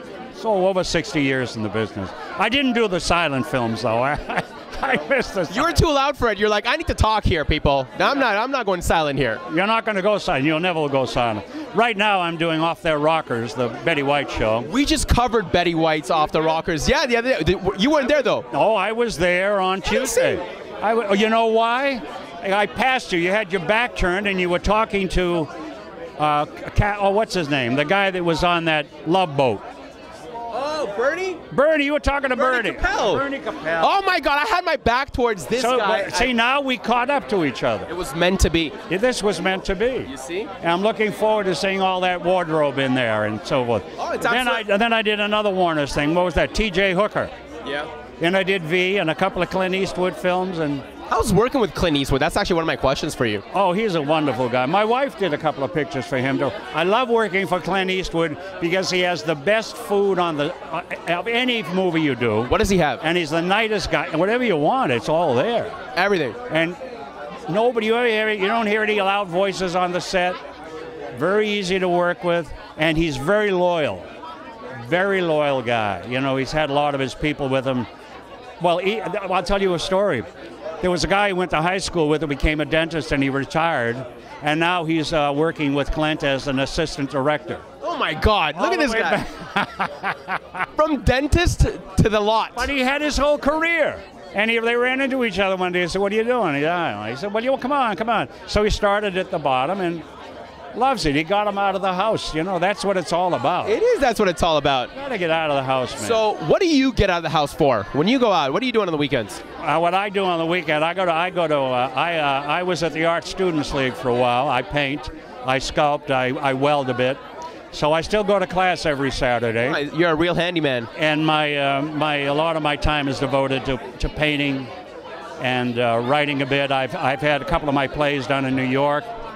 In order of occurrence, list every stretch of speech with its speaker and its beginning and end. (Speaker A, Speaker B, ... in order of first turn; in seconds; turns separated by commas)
Speaker A: 0.3-5.8, Speaker B: 5.5-9.4, Speaker A: 9.5-14.7, Speaker B: 14.7-18.5, Speaker A: 18.5-25.5, Speaker B: 19.9-20.4, Speaker A: 26.2-29.6, Speaker B: 30.5-31.4, Speaker A: 31.5-33.9, Speaker B: 32.3-33.2, Speaker B: 33.8-36.3, Speaker A: 35.6-37.9, Speaker B: 37.9-38.8, Speaker A: 38.9-47.3, Speaker B: 40.1-40.5, Speaker B: 44.0-44.7, Speaker B: 47.6-47.9, Speaker A: 48.2-50.9, Speaker B: 51.1-53.4, Speaker A: 53.5-65.8, Speaker B: 62.5-63.0, Speaker B: 66.0-66.4, Speaker A: 66.5-66.8, Speaker A: 67.5-70.4, Speaker A: 71.1-74.1, Speaker A: 74.8-77.9, Speaker A: 78.6-80.3, Speaker A: 80.8-87.6, Speaker B: 87.8-89.2, Speaker A: 88.5-90.7, Speaker B: 90.8-92.7, Speaker A: 92.5-100.0, Speaker A: 100.7-103.8, Speaker B: 103.7-104.9, Speaker A: 104.9-106.2, Speaker B: 106.0-109.4, Speaker A: 109.6-117.2, Speaker A: 117.7-119.8, Speaker B: 119.6-120.9, Speaker A: 121.0-124.7, Speaker A: 125.4-129.1